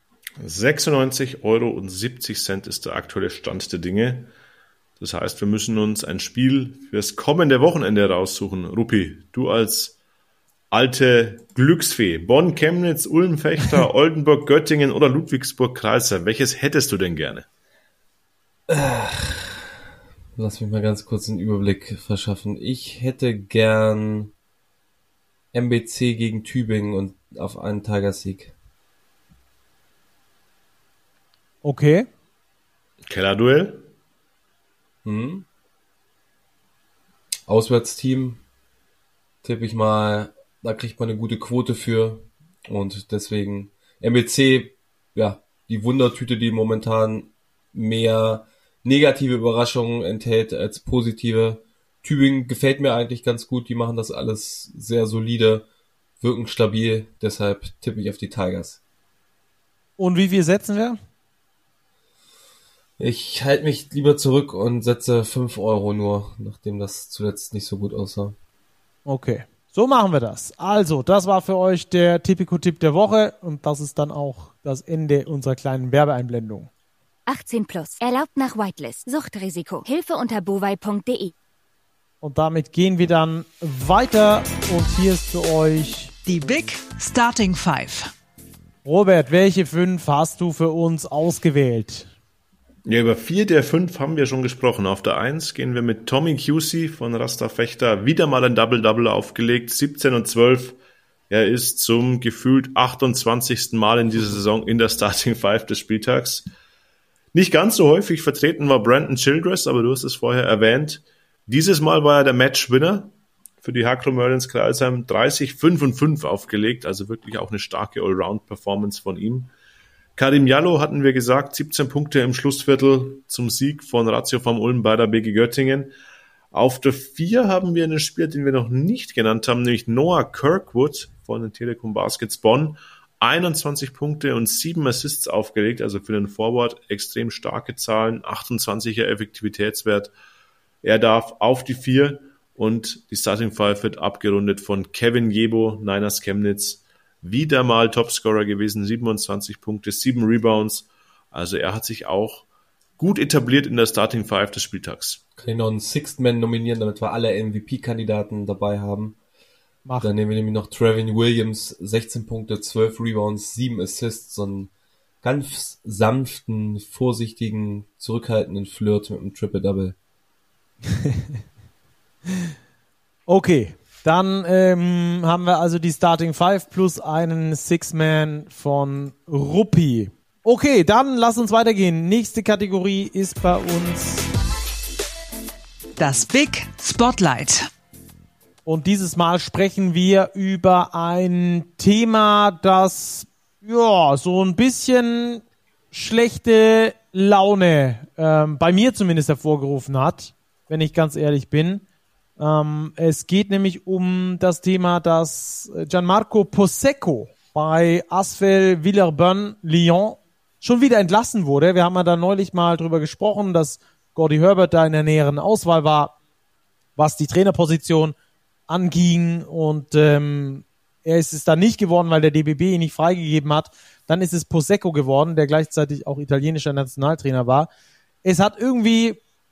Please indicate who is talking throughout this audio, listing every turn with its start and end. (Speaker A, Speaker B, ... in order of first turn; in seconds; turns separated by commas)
Speaker A: 0.4-4.3, Speaker A: 5.0-9.9, Speaker A: 10.7-17.5, Speaker B: 18.7-19.6, Speaker B: 20.4-24.3, Speaker B: 25.5-28.5, Speaker C: 31.6-32.1, Speaker A: 33.1-33.9, Speaker B: 35.0-35.5, Speaker B: 37.5-38.4, Speaker B: 39.4-55.7, Speaker B: 56.2-58.8, Speaker C: 60.0-61.0, Speaker B: 63.0-68.3, Speaker C: 69.1-76.7, Speaker D: 77.3-81.3, Speaker C: 82.2-86.1, Speaker E: 86.3-88.1, Speaker C: 88.8-92.1, Speaker A: 92.9-100.8, Speaker A: 101.3-106.5, Speaker A: 107.3-119.5, Speaker A: 120.2-125.9, Speaker A: 126.5-140.1, Speaker A: 140.8-152.5, Speaker A: 153.0-155.2, Speaker B: 155.4-159.2, Speaker C: 159.8-160.1, Speaker B: 160.0-164.7, Speaker B: 165.2-170.0, Speaker C: 173.3-184.3, Speaker E: 186.0-187.7, Speaker C: 188.7-201.8, Speaker C: 202.4-216.2, Speaker C: 217.0-218.1, Speaker C: 218.7-227.7, Speaker C: 228.2-229.2